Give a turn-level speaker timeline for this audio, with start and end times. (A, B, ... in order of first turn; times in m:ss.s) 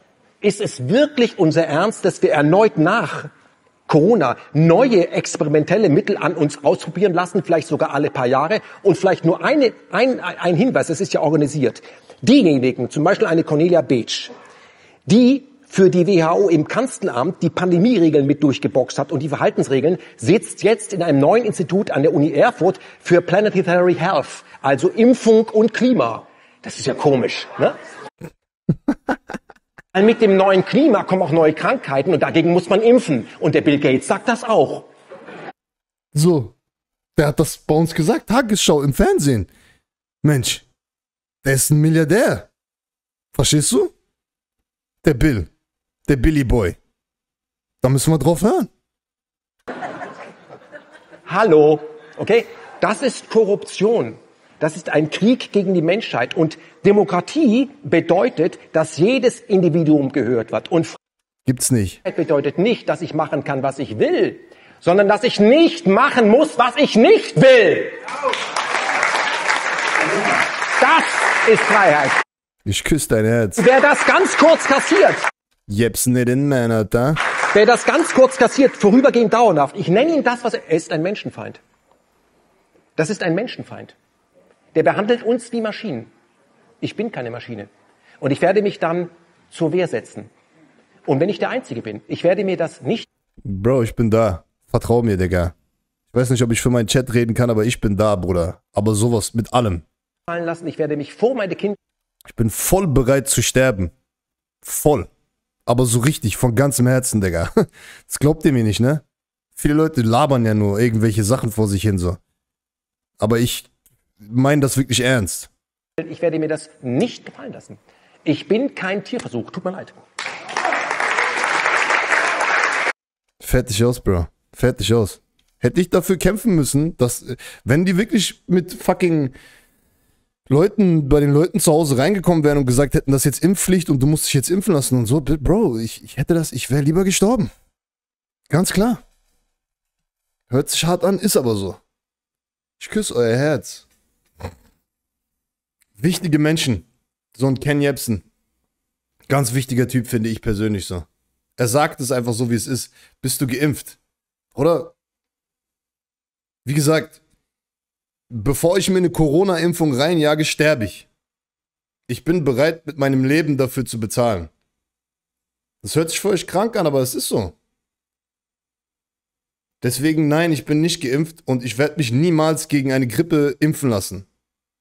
0:00.4-0:03.3 A
0:03.9-0:14.3 A
0:15.0-0:27.8 A
0:29.9-0:34.9 A
0:36.1-0:36.5 B
0:37.2-0:39.5 B
0:40.2-0:40.6 B
0:41.4-0:42.5 B
0:43.3-0:43.9 B
0:45.0-0:45.5 B
0:46.1-0:46.8 B
0:47.8-0:48.7 B
0:51.2-1:01.0 A
1:01.4-1:02.0 B
1:02.0-1:08.0 A
1:10.8-1:12.2 A
1:12.6-1:13.6 B
1:13.6-1:15.2 A
1:15.7-1:17.2 B
1:17.5-1:21.6 A
1:23.0-1:24.0 A
1:24.7-1:26.1 A
1:26.8-1:27.7 A
1:28.2-1:30.3 A
1:31.0-1:33.1 A
1:33.4-1:35.5 B
1:36.1-1:39.8 B
1:40.3-1:41.8 A
1:42.2-1:43.9 B
1:44.6-1:45.1 B
1:45.7-1:47.5 B
1:48.1-1:49.0 B
1:49.6-1:52.2 B
1:53.2-1:53.7 B
1:54.2-1:55.5 B
1:56.0-2:00.0 A
2:03.4-2:09.3 B
2:10.5-2:17.5 B
2:18.5-2:19.0 B
2:20.5-2:21.8 B
2:22.8-2:23.9 B
2:26.0-2:28.2 B
2:29.3-2:31.0 B
2:31.6-2:34.0 B
2:34.5-2:34.9 B
2:36.6-2:37.2 B
2:38.3-2:41.1 B
2:42.1-2:44.5 B
2:45.8-2:47.5 B
2:49.8-2:54.2 B